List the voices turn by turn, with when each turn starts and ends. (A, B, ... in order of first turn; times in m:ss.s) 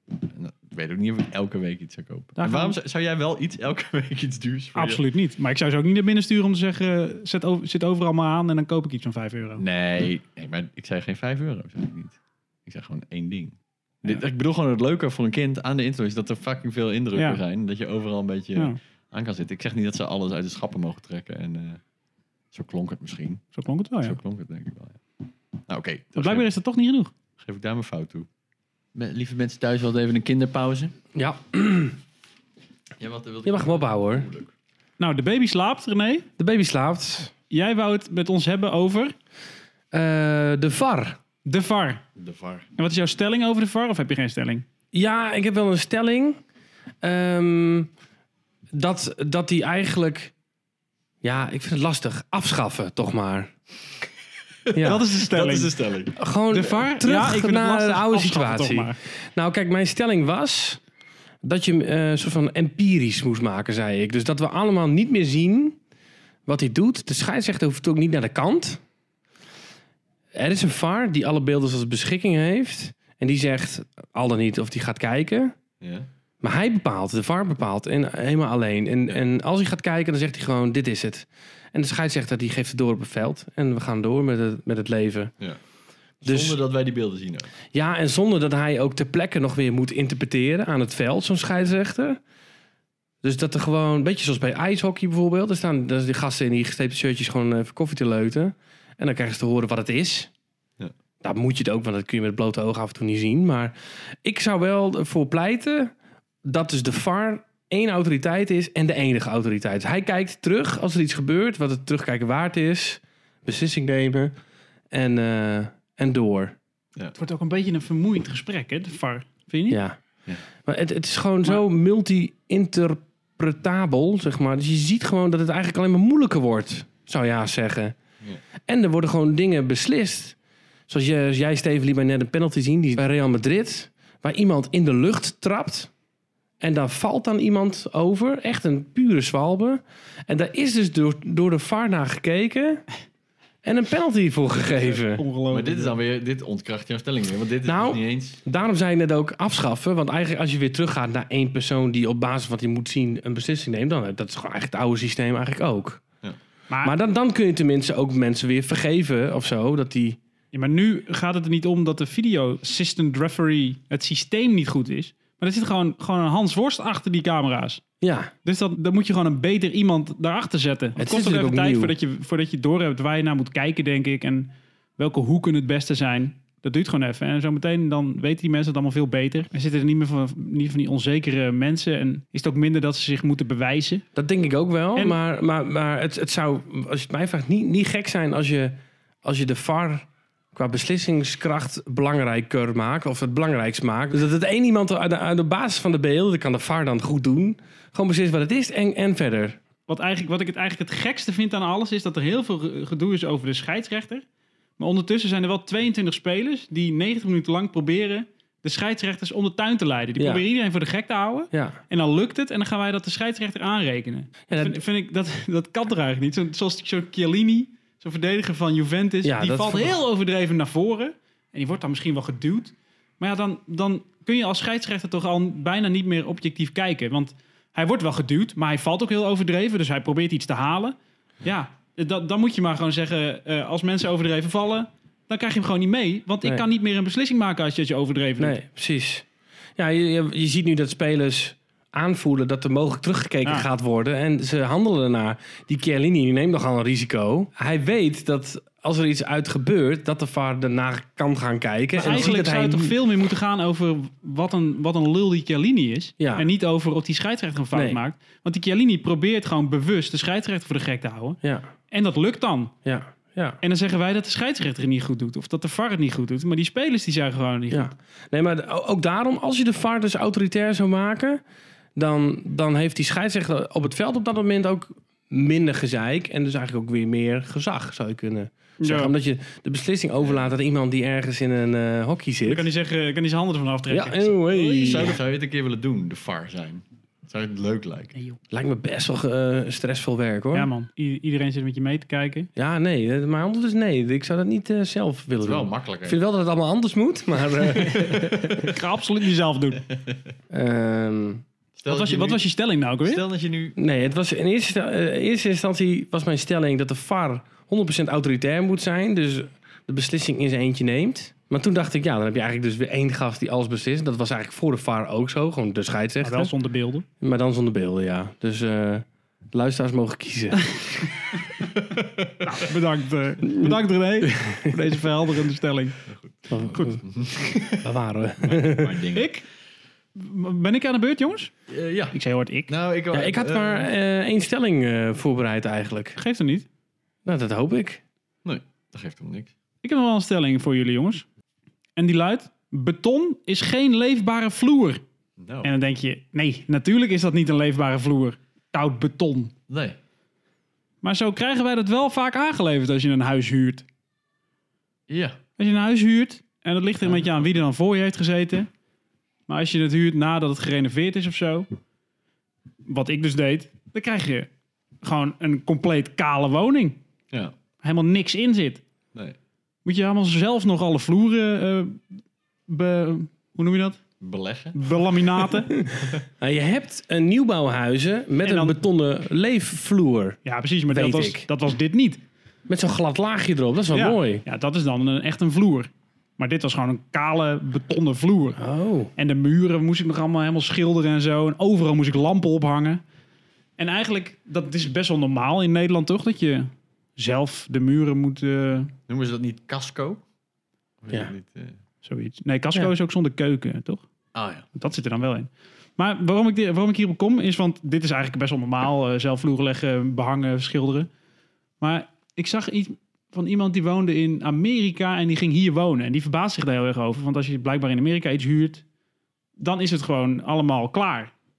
0:00.3-0:05.0 A
0:02.4-0:02.8 B
0:04.8-0:09.6 B
0:09.6-0:21.8 A
0:17.2-0:17.4 B
0:22.5-0:23.4 A
0:23.5-0:24.2 B
0:24.0-0:25.0 A
0:25.7-0:26.5 A
0:26.2-0:27.1 B
0:27.4-0:28.3 A
0:29.0-0:30.9 A
0:31.2-0:32.0 C
0:33.0-0:34.5 A
0:33.4-0:34.3 C
0:35.0-0:36.3 B
0:36.4-0:37.3 C
0:37.5-0:39.1 B
0:39.9-0:41.2 C
0:41.4-0:42.0 B
0:42.2-0:42.7 A
0:42.8-0:44.6 B
0:44.9-0:46.4 C
0:47.0-0:47.9 C
0:48.7-0:50.3 C
0:51.2-0:53.5 C
0:54.7-0:56.2 A
0:54.7-0:55.0 C
0:54.8-0:55.7 B
0:56.2-1:00.8 C
0:56.5-0:59.0 B
1:01.4-1:05.8 C
1:06.5-1:08.8 C
1:10.3-1:15.6 C
1:15.8-1:16.1 A
1:16.4-1:25.3 C
1:26.2-1:27.5 A
1:26.2-1:26.6 C
1:27.7-1:32.2 C
1:33.2-1:40.3 C
1:41.2-1:45.9 C
1:46.4-1:54.3 C
1:54.9-1:56.6 C
1:57.2-1:59.8 B
1:59.7-2:00.0 C
2:00.6-2:08.0 C
2:08.7-2:10.4 C
2:10.9-2:15.9 C
2:16.6-2:22.8 C
2:23.6-2:25.2 C
2:24.6-2:26.0 B
2:25.5-2:28.4 A
2:27.6-2:36.0 C
2:36.7-2:37.0 B
2:36.8-2:40.2 C
2:40.5-2:47.8 B
2:48.0-2:48.3 C
2:48.4-3:04.0 B
2:51.0-2:51.9 C
3:04.2-3:19.6 C
3:19.9-3:24.2 B
3:24.8-3:58.6 B
3:30.2-3:30.4 C
3:31.5-3:31.8 C
3:34.5-3:34.8 C
3:39.2-3:40.0 C
3:58.4-4:13.0 C
4:12.0-4:21.4 B
4:12.0-4:12.3 A
4:16.2-4:16.5 C
4:17.7-4:18.0 C
4:21.4-4:21.7 C
4:21.9-4:22.7 B
4:22.8-4:23.6 C
4:23.6-4:27.9 B
4:27.7-4:31.4 C
4:32.0-4:42.7 C
4:38.8-4:39.1 B
4:42.5-4:45.2 B
4:43.9-4:45.2 C
4:44.7-4:48.2 A
4:48.5-4:50.7 C
4:50.5-4:52.5 B
4:52.6-4:58.7 C
4:55.4-4:56.2 A
4:57.8-4:59.8 B
5:00.5-5:01.4 C
5:01.8-5:02.4 A
5:01.9-5:03.2 B
5:03.0-5:03.8 A
5:03.8-5:16.5 C
5:16.2-5:17.0 B
5:17.2-5:20.8 C
5:20.7-5:21.7 B
5:21.8-5:22.3 A
5:22.4-5:26.0 B
5:23.4-5:24.8 C
5:26.1-5:27.9 A
5:26.5-5:27.0 C
5:27.7-5:29.0 C
5:28.4-5:29.3 A
5:29.1-5:29.4 B
5:30.2-5:31.5 B
5:31.7-5:32.2 A
5:32.1-5:32.7 B
5:32.7-5:33.9 A
5:33.1-5:36.2 C
5:36.2-5:36.7 B
5:37.2-5:38.0 C
5:38.4-5:39.5 A
5:39.8-5:41.2 B
5:42.0-5:45.0 B
5:45.4-5:45.8 A
5:45.6-5:49.5 B
5:49.7-5:50.0 A
5:51.0-5:53.8 B
5:55.1-5:55.4 A
5:55.6-5:58.7 B
5:59.5-6:01.7 B
6:02.9-6:04.5 B
6:05.0-6:07.0 B
6:07.8-6:08.8 B
6:09.8-6:12.1 B
6:12.7-6:14.0 B
6:14.2-6:15.4 A
6:14.7-6:15.8 B
6:16.4-6:20.4 C
6:18.4-6:18.8 B
6:20.4-6:22.2 B
6:20.9-6:21.5 C
6:22.7-6:24.4 C
6:23.9-6:28.6 B
6:28.6-6:29.1 C
6:29.2-6:33.0 B
6:33.8-6:38.9 B
6:39.1-6:40.2 A
6:41.0-6:41.8 A
6:42.0-6:44.0 B
6:44.3-6:44.7 A
6:44.8-6:51.1 B
6:51.8-6:58.8 B
6:59.6-7:01.3 B